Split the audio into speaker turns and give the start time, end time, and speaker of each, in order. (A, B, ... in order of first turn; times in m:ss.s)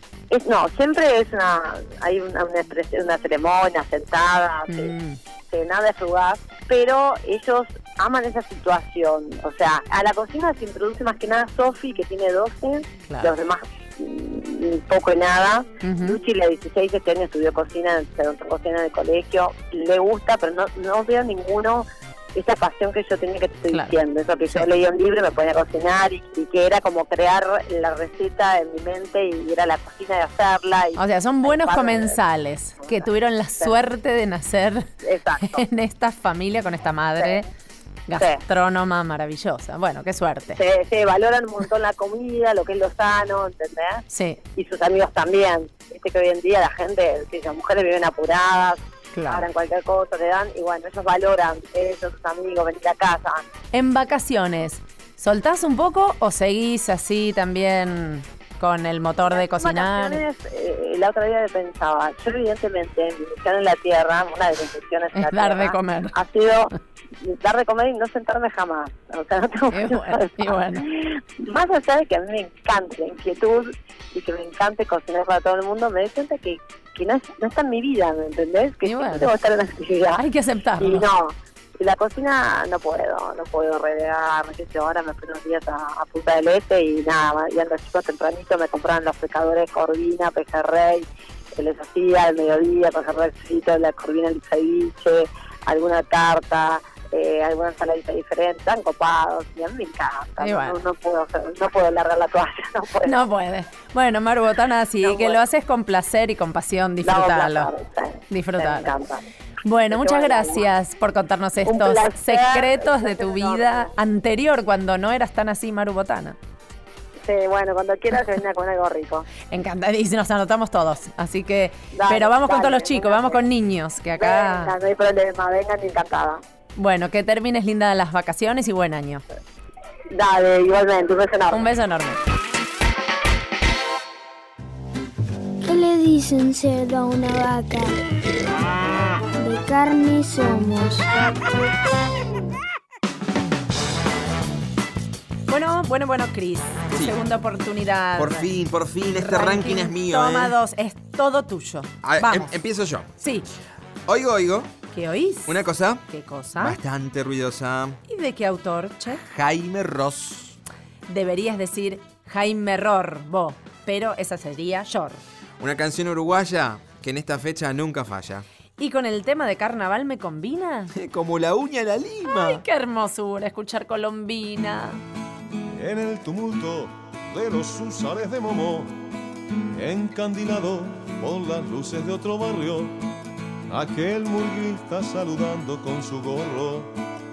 0:00.3-0:04.9 A
0:04.7-0:05.2 B
0:05.5-0:32.2 A
0:15.8-0:16.2 B
0:31.0-0:34.9 B
0:32.8-0:33.8 A
0:35.0-0:35.6 A
0:35.4-0:37.5 B
0:37.2-0:37.4 A
0:38.1-0:40.6 B
0:38.1-0:38.4 A
0:40.5-0:44.0 A
0:44.1-0:44.4 B
0:44.6-0:53.4 A
0:49.1-0:49.4 B
0:53.7-1:00.2 B
0:59.2-1:20.2 A
1:05.2-1:06.1 B
1:09.7-1:10.9 B
1:18.8-1:19.3 B
1:20.2-1:21.1 B
1:20.8-1:43.2 A
1:40.4-1:40.8 B
1:43.0-1:47.7 B
1:45.0-1:45.4 A
1:47.0-1:49.2 A
1:48.3-1:48.9 B
1:49.6-1:56.4 B
1:49.9-1:50.7 A
1:51.6-1:53.9 A
1:57.2-1:59.3 A
1:59.5-2:04.7 B
2:01.9-2:03.4 A
2:04.2-2:06.4 A
2:06.8-2:09.2 B
2:10.1-2:11.7 A
2:11.5-2:12.2 B
2:15.7-2:17.9 C
2:19.4-2:21.0 C
2:25.5-2:28.5 B
2:28.2-2:30.6 D
2:29.2-2:32.5 B
2:32.0-2:33.1 D
2:33.2-2:33.5 B
2:34.1-2:34.7 D
2:34.9-2:36.8 B
2:35.5-2:36.0 D
2:36.6-2:38.0 D
2:38.1-2:39.2 B
2:39.2-2:40.6 D
2:41.1-2:45.2 B
2:45.6-2:48.4 D
2:48.8-2:50.9 B
2:50.9-2:52.6 D
2:52.3-2:55.0 B
2:55.8-2:58.9 E
2:59.8-3:02.9 E
3:03.7-3:06.9 E